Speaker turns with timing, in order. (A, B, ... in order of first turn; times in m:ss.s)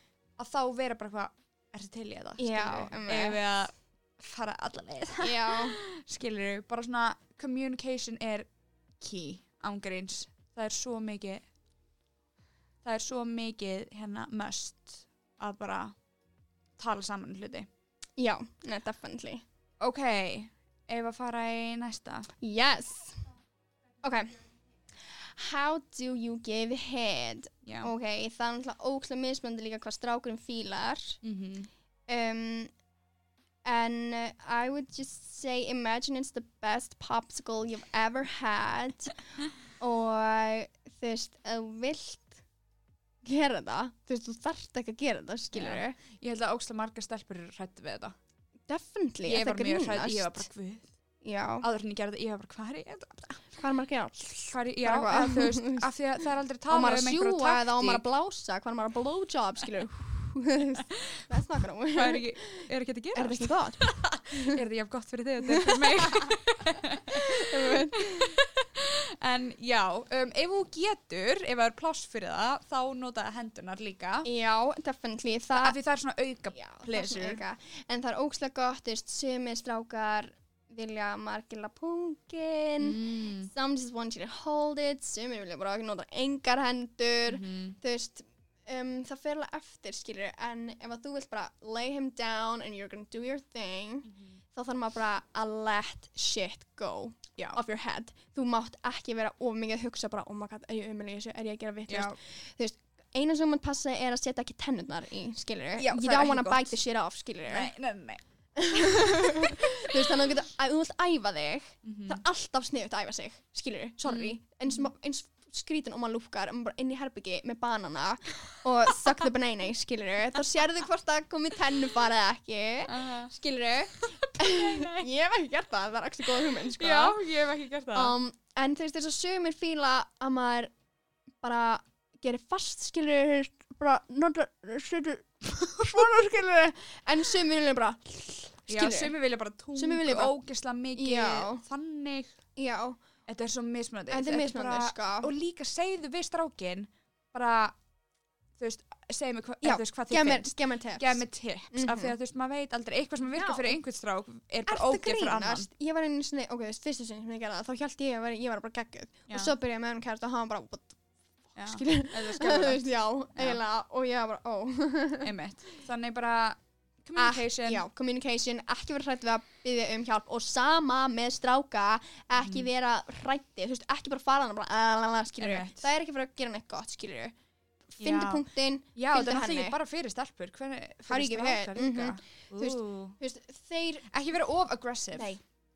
0:00.4-0:08.5 A
0:02.4-0:03.4 B
0:05.2-0:05.8 B
0:09.0-0:11.4 A
0:12.8-0:15.9 A
0:16.8-0:17.7 A
0:18.2-0:19.4 B
0:19.8-0:22.3 A
0:22.4-0:23.2 B
0:24.0-0:24.4 B
0:25.0-0:31.2 B
0:27.6-0:27.9 A
0:31.2-0:31.7 A
0:32.1-0:32.7 B
0:33.6-0:39.2 B
0:39.8-0:42.4 B
0:43.2-0:46.0 B
0:45.5-0:48.1 A
0:48.7-0:50.4 B
0:49.2-0:50.9 A
0:51.2-0:51.6 B
0:51.6-0:53.4 A
0:53.5-1:04.6 B
0:54.5-0:58.0 A
1:01.9-1:14.3 A
1:05.4-1:06.3 B
1:07.1-1:08.4 B
1:14.2-1:15.8 B
1:15.6-1:17.4 A
1:16.5-1:47.7 B
1:22.8-1:23.5 A
1:27.3-1:27.8 A
1:34.1-1:34.4 A
1:41.9-1:42.2 A
1:45.8-1:46.7 A
1:47.5-1:48.2 A
1:48.6-2:07.2 B
1:48.8-1:49.6 A
1:51.8-1:52.2 A
1:54.1-1:54.9 A
2:02.8-2:03.3 A
2:04.0-2:05.1 A
2:06.4-2:08.1 A
2:07.9-2:10.7 B
2:11.4-2:19.1 B
2:18.7-2:22.3 A
2:19.8-2:20.4 B
2:20.9-2:21.6 B
2:22.6-2:23.0 B
2:23.3-2:27.8 A
2:24.1-2:25.3 B
2:28.6-2:35.7 A
2:29.6-2:32.1 B
2:33.3-2:33.8 B
2:34.7-2:41.0 B
2:41.5-2:45.3 B
2:41.6-2:42.8 A
2:43.3-2:43.6 A
2:45.2-2:47.8 A
2:47.2-2:57.3 B
2:52.4-2:52.7 A
2:55.4-2:55.9 A
2:57.9-2:59.8 B
2:58.0-2:58.4 A
2:59.0-3:03.2 A
3:01.1-3:04.1 B
3:04.1-3:05.3 A
3:05.1-3:05.4 B